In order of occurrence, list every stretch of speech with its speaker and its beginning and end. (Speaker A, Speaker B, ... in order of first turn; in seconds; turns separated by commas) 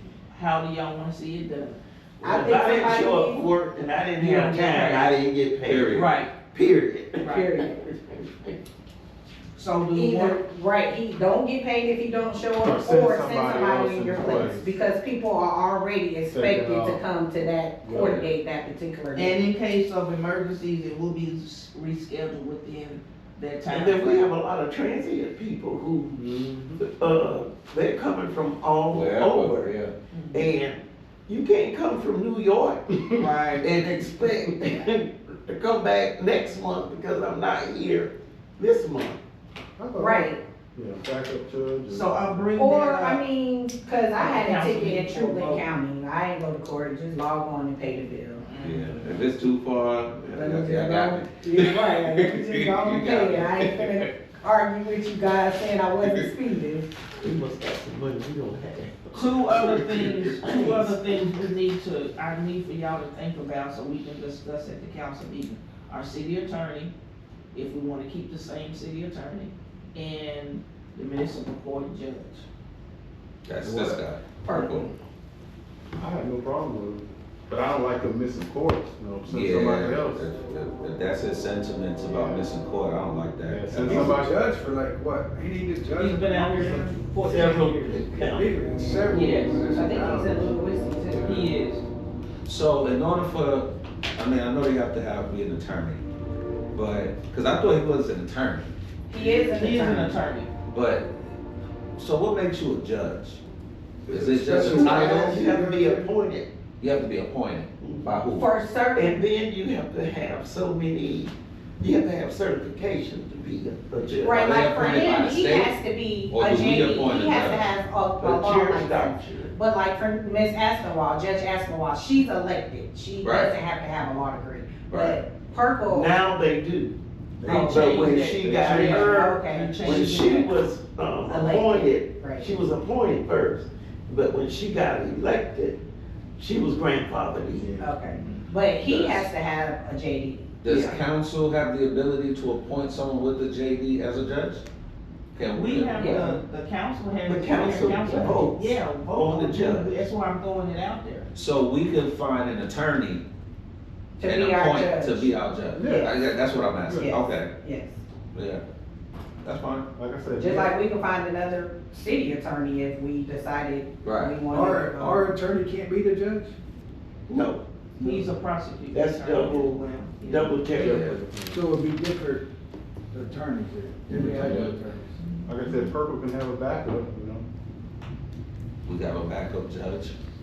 Speaker A: 0.3-1.8, Speaker B: 2.2-8.6, Speaker C: 2.2-3.5, Speaker A: 4.2-5.2, Speaker D: 5.6-6.1, Speaker A: 5.9-6.3, Speaker A: 7.2-7.5, Speaker C: 7.2-7.8, Speaker A: 9.6-10.4, Speaker C: 9.9-19.4, Speaker E: 12.6-14.7, Speaker E: 16.3-17.0, Speaker E: 17.8-18.2, Speaker D: 17.9-18.2, Speaker A: 19.1-24.2, Speaker B: 23.7-29.7, Speaker E: 26.1-26.8, Speaker D: 28.9-29.9, Speaker A: 30.1-30.5, Speaker B: 30.3-33.0, Speaker A: 33.1-33.7, Speaker B: 33.6-39.2, Speaker E: 39.8-42.5, Speaker C: 40.0-40.4, Speaker A: 41.9-43.2, Speaker C: 42.6-48.4, Speaker A: 44.1-45.6, Speaker A: 48.4-49.0, Speaker D: 48.6-54.1, Speaker C: 50.4-56.9, Speaker D: 56.0-56.3, Speaker B: 57.2-61.3, Speaker A: 59.1-66.9, Speaker A: 67.5-72.5, Speaker D: 73.4-74.9, Speaker C: 74.4-75.0, Speaker E: 75.9-80.2, Speaker D: 79.3-84.1, Speaker E: 82.1-82.5, Speaker E: 83.5-84.3, Speaker F: 83.8-91.5, Speaker A: 86.0-88.0, Speaker B: 87.8-88.5, Speaker A: 89.1-90.3, Speaker C: 89.7-91.3, Speaker A: 91.2-91.8, Speaker D: 92.4-96.0, Speaker D: 96.7-98.7, Speaker C: 99.1-100.1, Speaker F: 99.2-99.5, Speaker A: 99.5-100.5, Speaker D: 100.7-101.3, Speaker D: 102.0-103.4, Speaker F: 104.1-106.1, Speaker B: 104.1-106.5, Speaker D: 104.1-105.5, Speaker D: 106.8-108.5, Speaker B: 107.8-108.2, Speaker C: 108.3-109.2, Speaker B: 108.9-114.7, Speaker C: 114.2-126.1, Speaker D: 114.4-117.7, Speaker B: 118.2-119.5, Speaker D: 123.2-123.5, Speaker D: 124.9-125.2, Speaker B: 125.9-135.8, Speaker E: 127.4-128.2, Speaker A: 127.4-130.6, Speaker C: 127.5-130.2, Speaker C: 131.2-132.6, Speaker B: 136.4-137.7, Speaker E: 137.5-138.0, Speaker C: 137.8-140.5, Speaker D: 138.8-139.3, Speaker D: 140.6-144.6, Speaker B: 140.6-141.1, Speaker D: 145.3-146.3, Speaker A: 145.5-151.3, Speaker C: 145.9-146.3, Speaker B: 147.2-149.9, Speaker D: 151.3-153.2, Speaker C: 154.2-156.1, Speaker D: 154.2-157.5, Speaker E: 155.7-156.1, Speaker C: 156.9-158.0, Speaker D: 158.3-158.6, Speaker D: 159.4-159.9, Speaker E: 159.9-160.7, Speaker C: 160.4-165.3, Speaker D: 164.0-164.5, Speaker F: 164.5-166.5, Speaker B: 167.3-167.6, Speaker A: 168.0-170.6, Speaker B: 168.9-171.2, Speaker E: 170.7-171.7, Speaker D: 170.8-171.2, Speaker F: 171.5-172.4, Speaker F: 173.1-175.2, Speaker A: 174.1-175.9, Speaker E: 174.1-174.8, Speaker E: 175.4-177.4, Speaker D: 178.8-180.2